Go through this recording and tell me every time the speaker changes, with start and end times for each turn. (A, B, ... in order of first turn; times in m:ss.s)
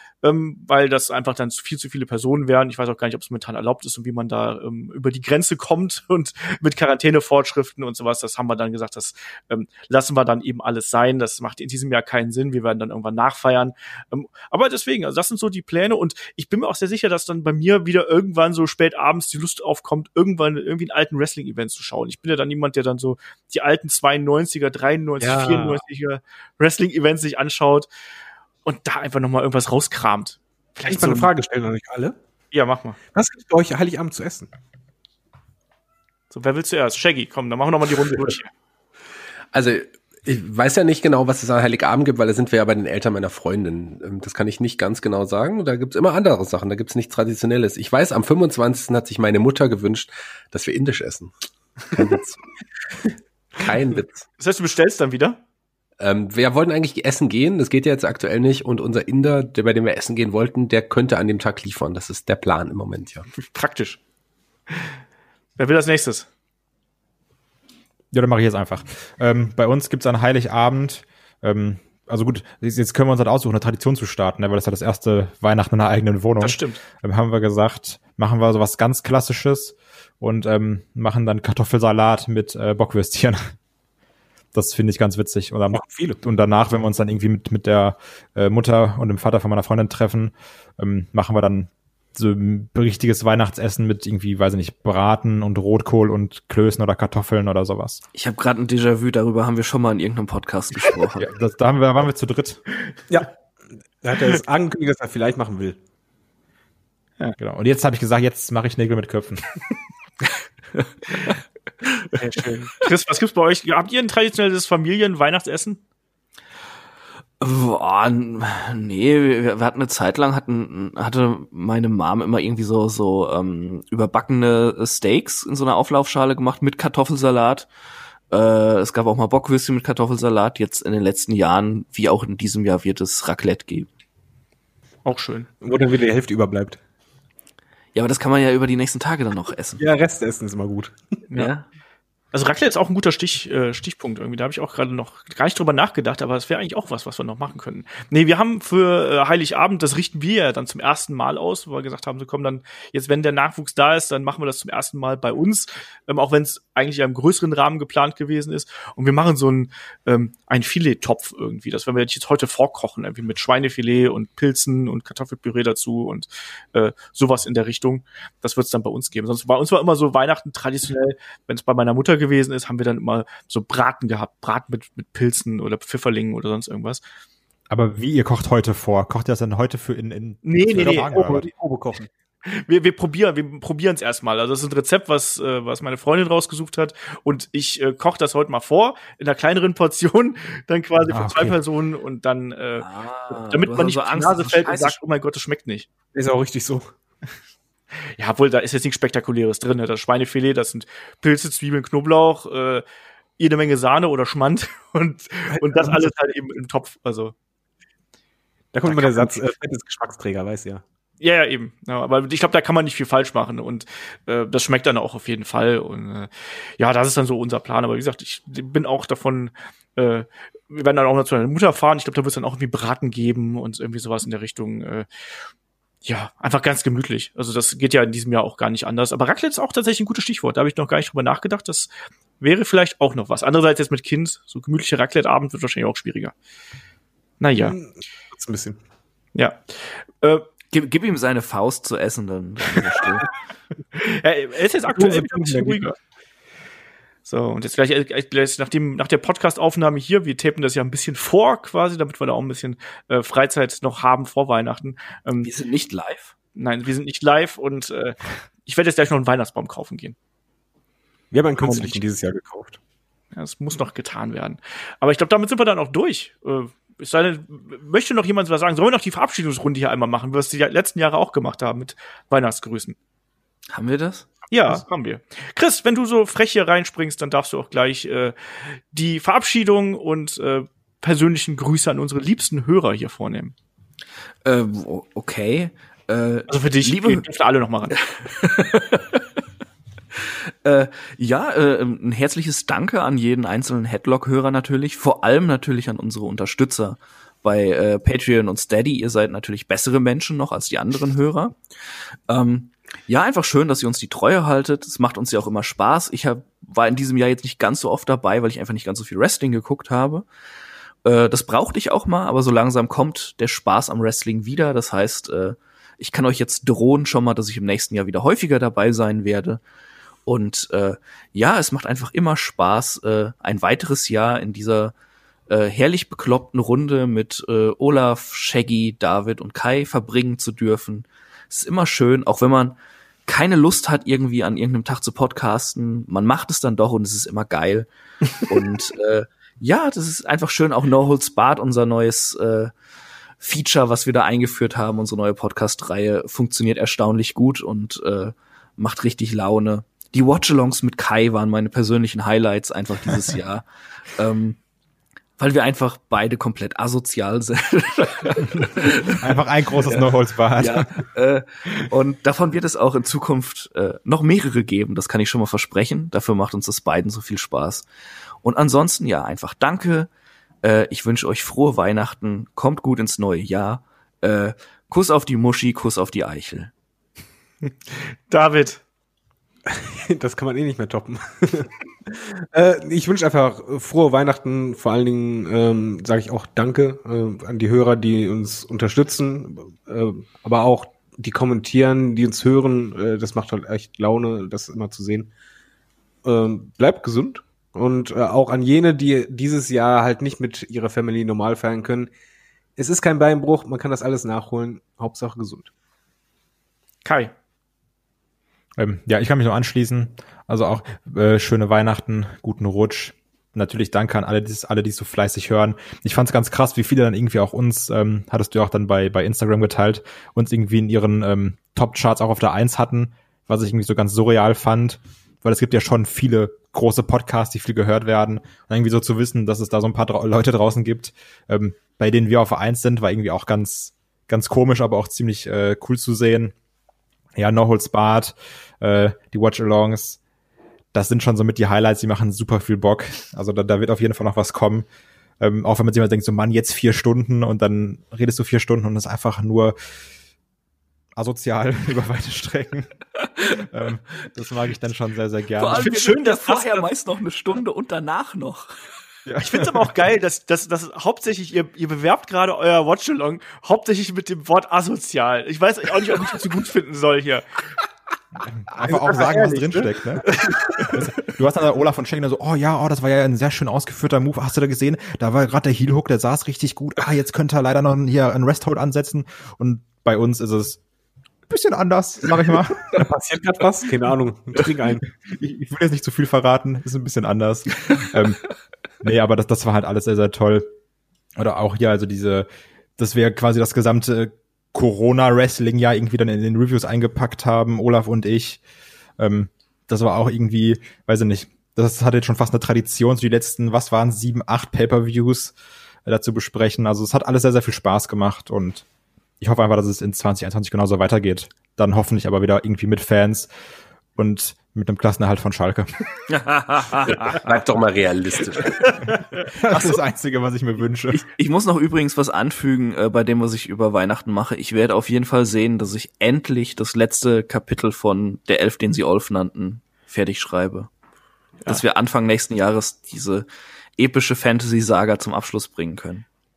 0:00.2-0:27.9 A
0:25.2-0:25.8 B
0:28.6-0:31.3 A
0:30.9-0:32.2 B
0:32.5-0:33.0 A
0:33.1-0:34.5 B
0:36.3-0:38.5 A
0:39.5-0:52.4 C
0:53.6-0:54.2 C
0:54.4-0:55.4 A
0:56.0-1:03.3 C
1:03.4-1:04.0 A
1:05.6-1:06.3 A
1:08.1-1:23.5 D
1:16.4-1:16.8 A
1:24.5-1:38.0 D
1:25.7-1:26.2 B
1:38.2-1:41.3 E
1:41.2-1:42.6 D
1:44.0-1:45.8 B
1:47.4-1:49.4 D
1:52.2-1:52.6 B
1:52.7-1:55.8 A
1:57.4-2:07.7 E
2:08.3-2:13.9 E
2:15.0-2:15.5 A
2:15.6-2:16.8 B
2:18.0-2:19.8 E
2:19.8-2:21.0 B
2:21.4-2:21.6 E
2:22.3-2:57.0 A
2:57.7-3:01.5 D
3:00.4-3:01.5 A
3:01.2-3:02.1 B
3:02.4-3:15.9 A
3:11.1-3:11.6 D
3:12.8-3:15.0 E
3:16.1-3:16.9 B
3:18.2-3:22.8 A
3:23.4-3:27.3 A
3:25.5-3:26.0 B
3:28.7-3:30.8 B
3:28.9-3:29.4 A
3:31.2-3:45.1 A
3:46.0-3:56.3 A
3:57.4-3:57.8 A
3:57.6-3:58.8 B
3:59.4-4:00.4 A
4:00.7-4:03.3 E
4:03.9-4:06.0 A
4:04.9-4:05.9 B
4:07.3-4:15.5 A
4:15.4-4:16.3 E
4:16.6-4:20.2 A
4:21.3-4:22.8 B
4:21.6-4:22.0 A
4:23.3-4:33.0 A
4:33.7-4:34.3 E
4:34.5-4:43.5 A
4:44.4-4:47.2 E
4:46.5-4:48.0 A
4:48.0-4:49.2 E
4:50.2-5:01.6 E
5:02.3-5:10.3 E
5:11.0-5:19.6 E
5:20.3-5:24.9 E
5:25.5-5:37.9 E
5:38.4-5:42.7 E
5:43.4-5:54.6 E
5:55.4-5:59.4 E
5:58.6-6:01.0 D
5:59.9-6:07.9 E
6:08.4-6:10.1 E
6:10.6-6:16.7 E
6:17.6-6:18.8 A
6:19.7-6:35.3 B
6:36.2-6:42.1 B
6:42.8-6:45.7 B
6:47.0-6:47.3 A
6:48.8-7:16.5 D
7:17.4-7:20.2 D
7:20.9-7:24.9 D
7:25.4-7:29.8 D
7:31.2-7:32.9 D
7:33.4-7:36.0 D
7:35.6-7:38.7 E
7:35.7-7:36.9 A
7:39.3-7:39.9 D
7:39.4-7:47.4 A
7:48.4-8:00.8 D
7:48.8-7:50.0 B
8:01.5-8:03.1 D
8:02.9-8:05.0 B
8:05.4-8:08.4 D
8:09.0-8:10.7 D
8:11.4-8:12.5 D
8:13.0-8:18.6 D
8:19.2-8:25.6 D
8:26.1-8:28.8 D
8:29.4-8:33.5 D
8:34.2-8:36.0 D
8:36.3-8:37.4 E
8:37.3-8:39.0 C
8:38.8-8:41.2 D
8:39.7-8:40.0 E
8:41.1-8:50.9 E
8:51.7-8:53.5 E
8:54.0-8:56.2 E